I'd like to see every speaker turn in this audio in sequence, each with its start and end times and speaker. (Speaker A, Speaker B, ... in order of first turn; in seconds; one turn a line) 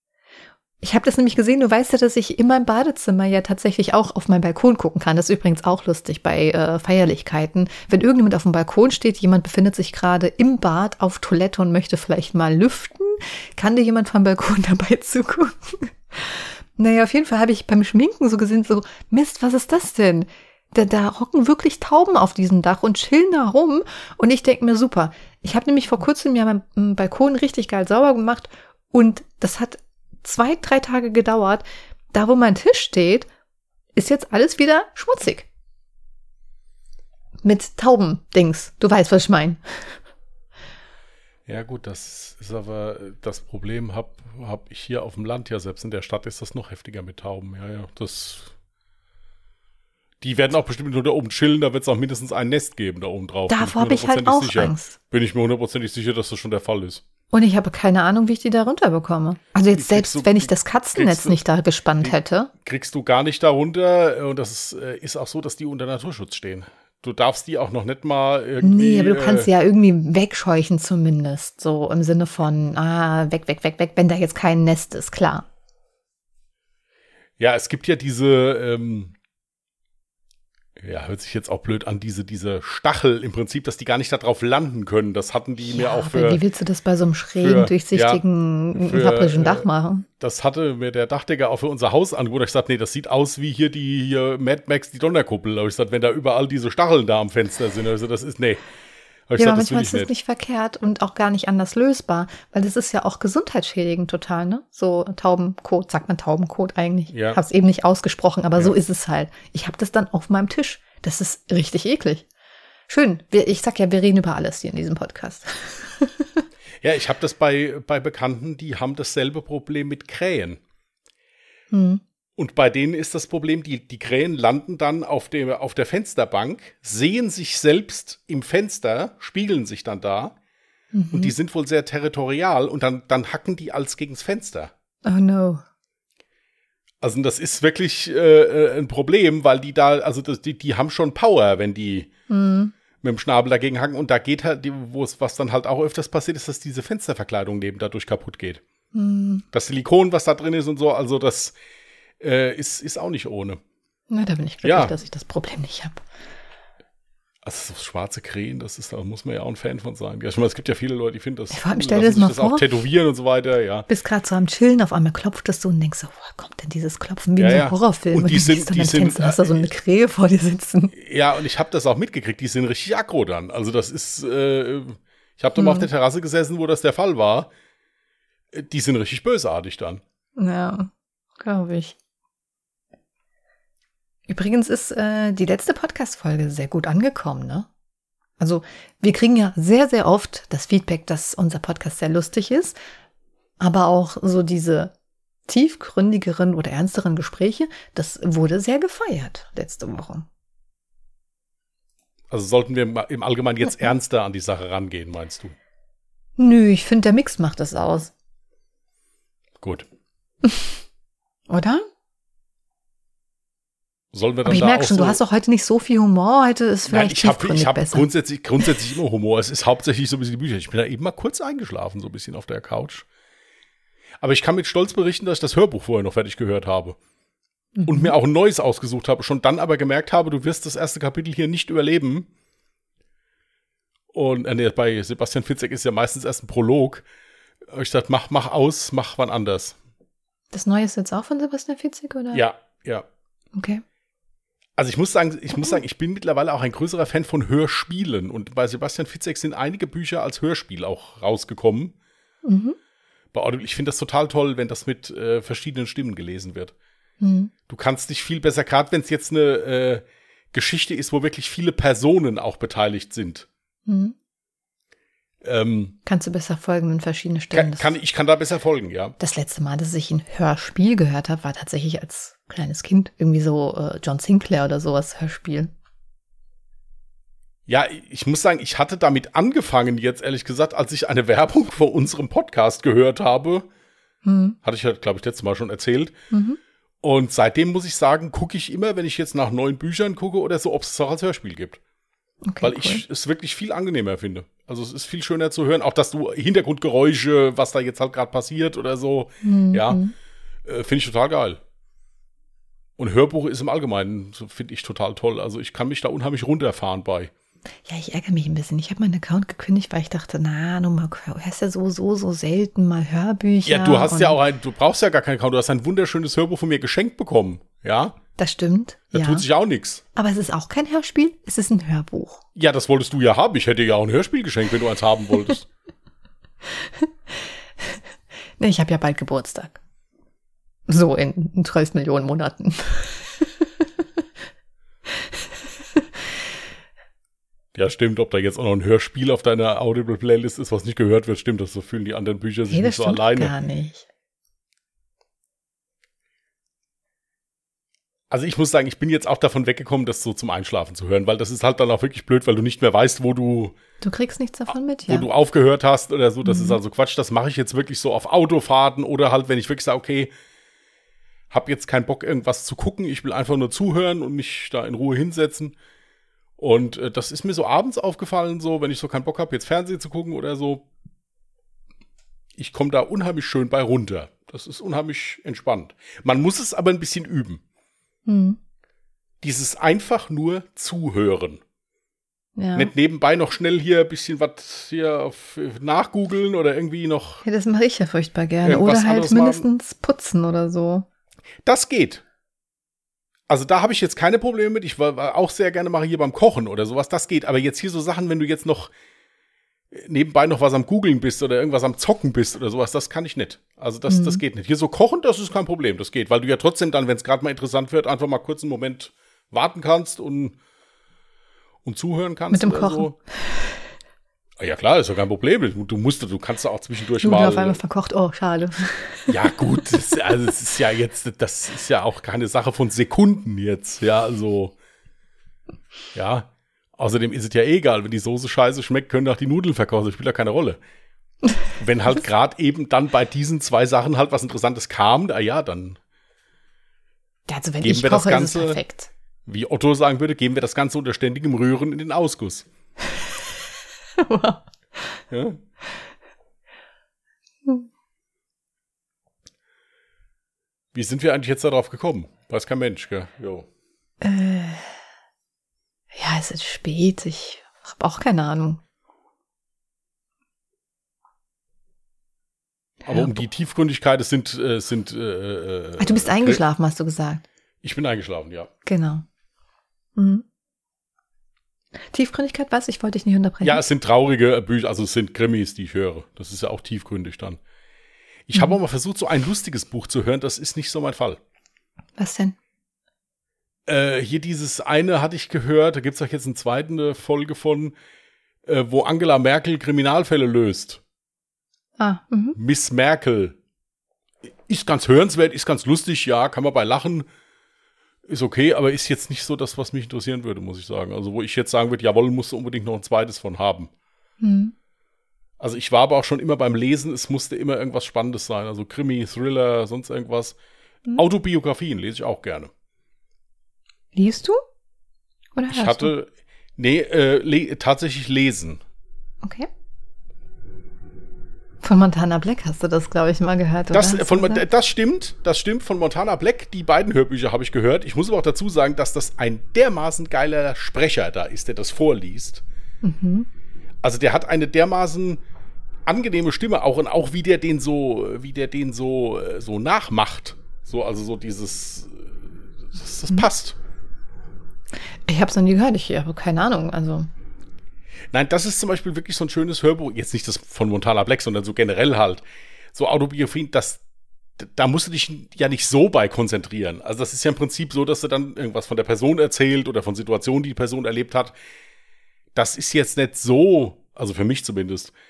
Speaker A: 0.8-33.3
Speaker A: 33.9-35.5
Speaker A: 37.4-40.0
Speaker B: 41.5-48.5
Speaker B: 50.2-57.0
Speaker A: 53.5-54.9
Speaker A: 57.3-62.5
Speaker B: 59.7-61.4
Speaker B: 62.0-69.5
Speaker A: 68.6-75.5
Speaker B: 77.4-79.1
Speaker B: 80.8-86.4
Speaker A: 85.6-90.0
Speaker B: 87.4-88.2
Speaker B: 88.7-89.7
Speaker B: 90.2-98.6
Speaker B: 99.3-100.1
Speaker A: 99.4-112.2
Speaker B: 107.1-107.4
Speaker A: 112.9-116.4
Speaker B: 116.8-120.6
Speaker A: 121.7-122.0
Speaker B: 122.4-130.3
Speaker A: 130.9-131.3
Speaker B: 131.1-134.7
Speaker A: 135.0-135.6
Speaker B: 137.0-142.1
Speaker A: 142.3-142.7
Speaker B: 143.0-148.6
Speaker A: 148.9-149.4
Speaker B: 149.5-151.5
Speaker B: 152.2-153.6
Speaker A: 154.1-156.0
Speaker B: 154.6-154.9
Speaker B: 157.4-163.9
Speaker A: 161.5-162.7
Speaker A: 163.9-170.9
Speaker B: 167.4-169.7
Speaker B: 170.9-177.5
Speaker A: 175.6-175.8
Speaker B: 178.5-180.0
Speaker A: 180.4-181.9
Speaker A: 184.3-187.7
Speaker A: 188.4-192.7
Speaker A: 193.6-194.9
Speaker A: 195.5-200.3
Speaker B: 202.3-205.5
Speaker A: 206.4-208.1
Speaker A: 210.4-210.8
Speaker A: 211.5-211.8
Speaker B: 214.1-215.2
Speaker A: 214.4-218.1
Speaker B: 216.9-223.1
Speaker B: 224.2-227.0
Speaker A: 227.8-228.1
Speaker B: 227.8-232.3
Speaker B: 234.1-237.0
Speaker B: 237.7-239.8
Speaker A: 240.5-242.4
Speaker B: 242.3-243.1
Speaker A: 243.5-243.8
Speaker B: 244.8-251.9
Speaker A: 252.4-252.8
Speaker B: 253.3-256.7
Speaker A: 257.2-257.5
Speaker B: 257.7-263.5
Speaker A: 263.9-264.1
Speaker B: 265.4-266.0
Speaker A: 266.1-267.9
Speaker B: 267.5-269.1
Speaker A: 269.2-275.7
Speaker B: 277.7-283.7
Speaker A: 284.2-284.6
Speaker B: 284.6-286.1
Speaker A: 286.3-286.6
Speaker B: 287.0-291.8
Speaker A: 292.4-293.0
Speaker B: 292.6-300.0
Speaker A: 299.4-300.1
Speaker B: 300.6-301.6
Speaker B: 303.0-307.3
Speaker A: 307.9-314.4
Speaker B: 313.6-318.1
Speaker A: 318.4-319.4
Speaker B: 319.1-320.0
Speaker A: 320.1-322.4
Speaker B: 322.5-325.7
Speaker A: 326.6-328.0
Speaker A: 328.6-329.8
Speaker A: 330.9-333.8
Speaker A: 335.1-336.1
Speaker B: 337.7-343.5
Speaker A: 342.7-344.1
Speaker B: 348.3-353.7
Speaker A: 354.0-355.3
Speaker B: 355.1-360.3
Speaker A: 356.4-356.8
Speaker B: 361.5-365.7
Speaker B: 366.6-370.8
Speaker B: 372.6-377.6
Speaker A: 378.2-378.6
Speaker B: 379.4-381.6
Speaker A: 382.6-382.9
Speaker B: 382.7-387.4
Speaker A: 387.4-391.1
Speaker B: 388.6-389.6
Speaker B: 391.6-392.2
Speaker B: 393.5-398.9
Speaker B: 399.9-410.6
Speaker A: 404.1-404.4
Speaker B: 411.8-413.1
Speaker A: 412.5-413.8
Speaker B: 414.6-417.8
Speaker A: 417.2-419.3
Speaker B: 419.3-424.7
Speaker B: 426.1-430.8
Speaker B: 431.8-436.0
Speaker A: 437.5-439.1
Speaker B: 437.8-438.8
Speaker B: 439.4-442.6
Speaker A: 444.2-445.2
Speaker B: 445.3-445.6
Speaker B: 450.9-453.6
Speaker A: 454.2-455.0
Speaker A: 456.1-458.8
Speaker A: 463.0-463.4
Speaker B: 463.1-466.6
Speaker A: 466.0-467.4
Speaker B: 467.8-468.7
Speaker A: 468.9-469.2
Speaker A: 470.1-470.4
Speaker A: 472.1-473.8
Speaker B: 473.6-477.6
Speaker B: 478.5-481.4
Speaker A: 482.2-482.5
Speaker B: 483.9-487.9
Speaker B: 488.6-491.0
Speaker A: 492.0-492.6
Speaker B: 492.5-493.6
Speaker B: 494.7-497.2
Speaker B: 498.3-503.9
Speaker A: 504.4-504.7
Speaker B: 505.6-510.6
Speaker B: 511.1-512.7
Speaker A: 514.1-514.6
Speaker A: 515.5-516.1
Speaker B: 515.7-518.8
Speaker A: 519.4-519.7
Speaker A: 521.8-524.6
Speaker B: 523.9-532.6
Speaker A: 533.0-533.5
Speaker B: 534.0-535.4
Speaker B: 536.0-543.8
Speaker A: 545.2-547.3
Speaker B: 548.3-552.4
Speaker B: 552.9-554.0
Speaker B: 554.6-561.5
Speaker B: 562.5-565.1